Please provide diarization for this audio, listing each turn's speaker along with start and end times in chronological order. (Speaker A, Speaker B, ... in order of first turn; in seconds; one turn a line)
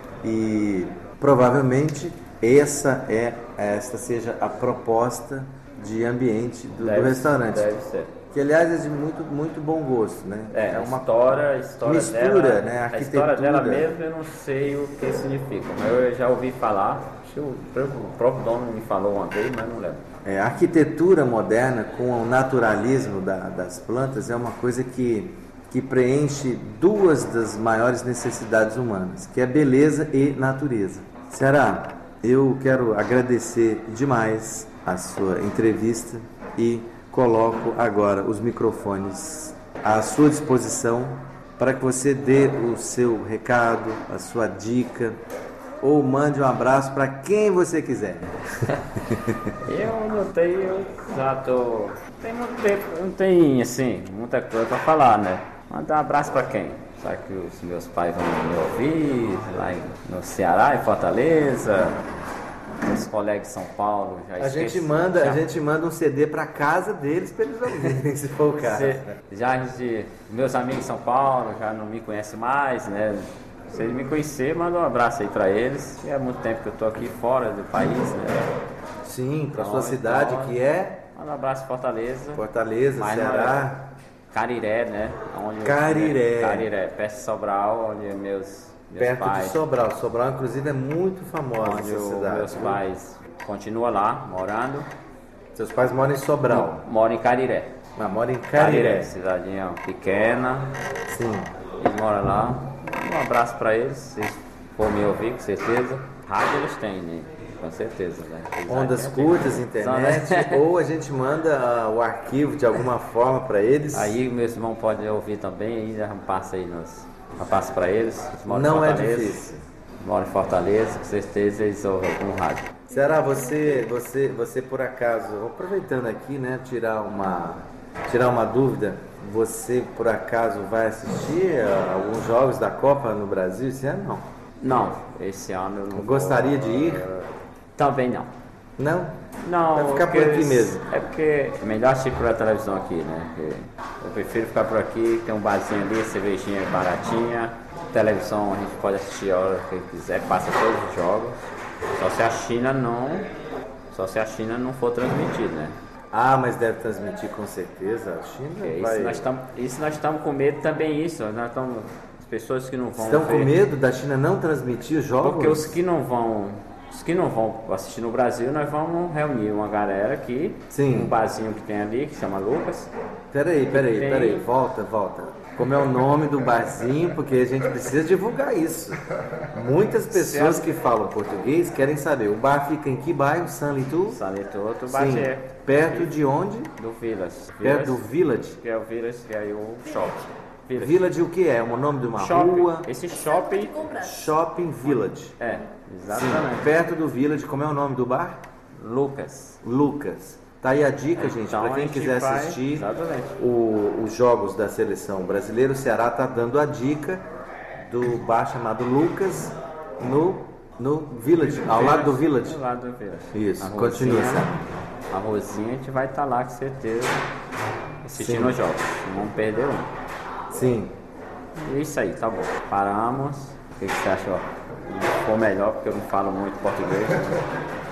Speaker A: 0.2-7.7
Speaker B: 6.8-8.1
Speaker A: 8.3-13.9
Speaker B: 10.5-20.0
Speaker A: 20.2-45.2
Speaker A: 45.8-48.4
Speaker A: 49.1-49.5
Speaker B: 49.6-62.0
Speaker B: 62.8-65.4
Speaker A: 64.4-69.1
Speaker B: 68.5-78.5
Speaker A: 79.0-81.0
Speaker B: 79.5-80.6
Speaker B: 81.1-82.4
Speaker A: 82.3-83.8
Speaker B: 83.0-89.7
Speaker A: 85.6-86.7
Speaker A: 89.0-92.8
Speaker B: 91.6-94.9
Speaker A: 95.5-96.8
Speaker B: 96.5-97.7
Speaker A: 98.0-99.1
Speaker B: 98.5-100.7
Speaker A: 101.1-101.5
Speaker B: 101.8-110.6
Speaker A: 108.7-114.2
Speaker B: 113.9-119.4
Speaker A: 118.5-119.6
Speaker B: 120.0-122.8
Speaker A: 122.9-134.3
Speaker B: 134.6-138.3
Speaker A: 135.9-137.1
Speaker A: 138.8-139.1
Speaker B: 139.4-151.4
Speaker A: 139.7-140.8
Speaker B: 152.0-153.3
Speaker B: 153.9-155.8
Speaker A: 156.1-159.2
Speaker B: 158.6-163.6
Speaker A: 163.0-165.7
Speaker B: 165.2-172.9
Speaker A: 170.7-171.1
Speaker A: 173.3-179.0
Speaker B: 173.7-174.5
Speaker A: 179.5-184.2
Speaker B: 180.1-180.7
Speaker B: 184.1-186.1
Speaker A: 184.9-186.7
Speaker B: 186.8-191.1
Speaker A: 187.6-188.6
Speaker A: 190.8-192.9
Speaker B: 192.2-194.0
Speaker A: 193.9-195.4
Speaker B: 194.8-196.7
Speaker A: 196.1-198.4
Speaker B: 198.8-199.6
Speaker A: 199.6-202.8
Speaker B: 201.2-203.4
Speaker A: 203.4-207.2
Speaker A: 207.8-212.6
Speaker B: 211.5-214.5
Speaker A: 213.3-214.6
Speaker B: 215.1-217.2
Speaker B: 218.0-219.9
Speaker A: 218.1-218.6
Speaker A: 220.5-220.9
Speaker B: 221.6-227.5